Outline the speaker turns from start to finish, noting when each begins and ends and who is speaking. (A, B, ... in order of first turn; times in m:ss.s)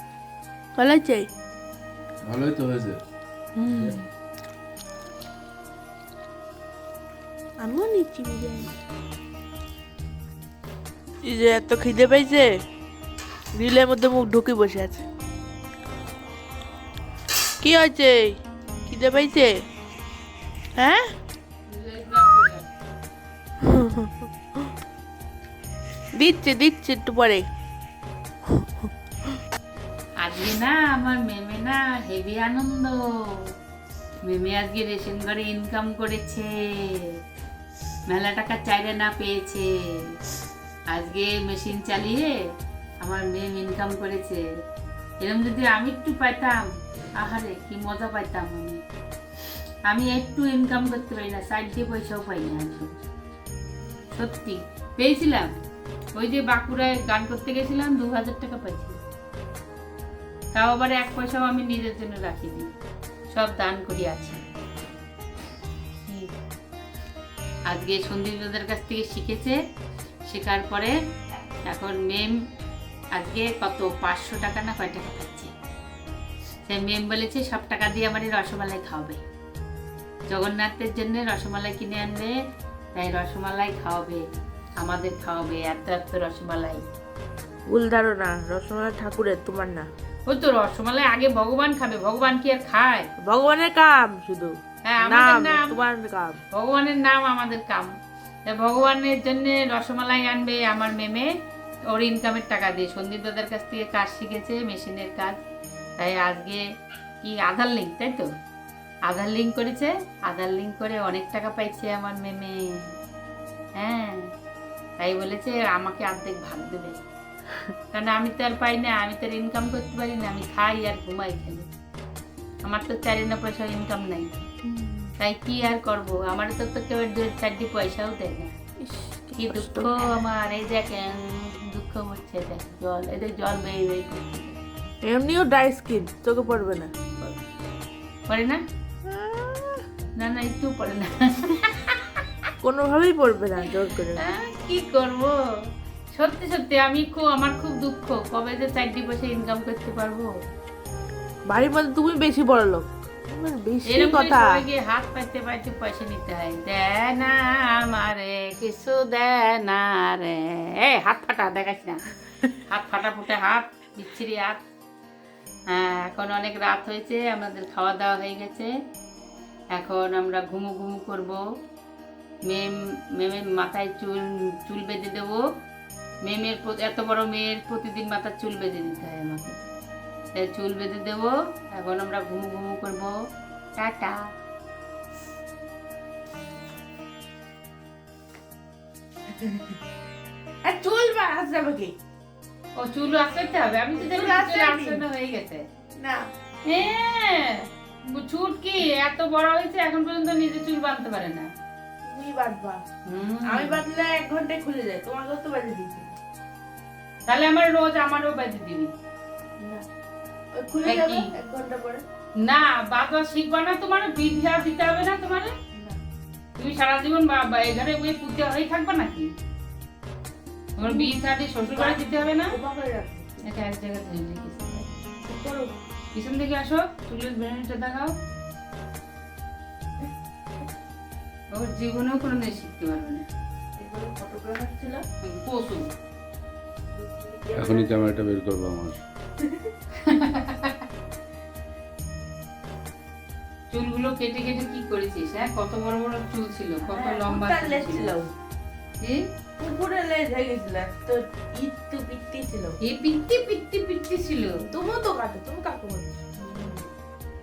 0:00.8-0:01.3 A
0:02.2-0:03.0 B
0:03.6-0:04.1 A
0:03.7-0:04.0 B
0:07.6-0:08.7 A
0:11.2-0:12.6 A
0:13.6-0:15.0 A
0:17.6-0:19.6 A
0:20.8-0:21.1 A
0:21.7-0:22.7 C
0:23.7-0:24.1 A
0:26.2-0:27.5 A
0:30.2-0:33.5 C
0:34.2-0:37.2 C
0:38.1-0:40.2 C
0:40.9-0:42.4 C
0:43.0-0:44.4 C
0:45.2-0:48.8 C
0:49.9-0:53.0 C
0:54.1-0:55.5 C
0:56.2-0:59.0 C
1:00.5-1:02.7 C
1:03.3-1:04.4 C
1:06.1-1:06.3 C
1:07.7-1:09.6 C
1:10.3-1:11.0 C
1:11.6-1:12.3 C
1:13.2-1:15.5 C
1:16.7-1:19.2 C
1:20.3-1:22.4 C
1:23.0-1:24.2 C
1:24.8-1:26.8 C
1:27.7-1:29.9 A
1:30.3-1:33.1 C
1:33.2-1:36.4 A
1:34.9-1:35.8 C
1:36.5-1:37.9 C
1:38.5-1:41.3 C
1:41.9-1:45.4 C
1:46.0-1:46.6 C
1:47.2-1:48.3 C
1:49.1-1:53.0 C
1:53.8-1:54.3 C
1:55.0-1:57.0 C
1:57.9-2:01.7 C
2:02.6-2:04.3 C
2:04.6-2:05.1 A
2:05.2-2:08.6 C
2:08.8-2:10.2 A
2:09.4-2:14.6 C
2:15.0-2:17.1 A
2:18.3-2:18.6 C
2:19.1-2:19.8 A
2:20.2-2:22.2 C
2:22.6-2:24.2 A
2:24.2-2:25.4 C
2:26.1-2:30.3 C
2:31.5-2:34.6 A
2:33.9-2:42.0 C
2:42.7-2:44.6 C
2:45.7-2:48.7 C
2:49.7-2:51.4 C
2:52.5-2:55.4 C
2:56.2-2:59.6 C
3:00.4-3:03.2 C
3:03.8-3:04.3 C
3:09.3-3:09.8 A
3:10.6-3:12.0 A
3:12.8-3:15.6 C
3:14.0-3:15.0 A
3:16.0-3:16.3 A
3:16.7-3:21.5 C
3:22.0-3:22.8 A
3:23.1-3:23.8 C
3:23.5-3:26.2 A
3:27.3-3:28.9 C
3:29.6-3:29.8 A
3:30.6-3:32.0 A
3:30.8-3:31.3 C
3:32.4-3:35.5 C
3:36.6-3:39.3 C
3:40.8-3:42.6 C
3:40.8-3:41.2 A
3:41.7-3:43.4 A
3:43.4-3:44.9 C
3:45.2-3:45.7 A
3:46.2-3:48.2 C
3:51.5-3:53.2 C
3:53.8-3:55.0 A
3:55.2-3:55.9 C
3:56.9-3:57.9 A
3:57.6-3:59.0 B
3:59.4-3:59.7 A
4:00.0-4:00.8 C
4:03.7-4:08.1 C
4:06.8-4:08.3 A
4:09.6-4:12.8 A
4:12.8-4:14.6 C
4:14.7-4:16.8 A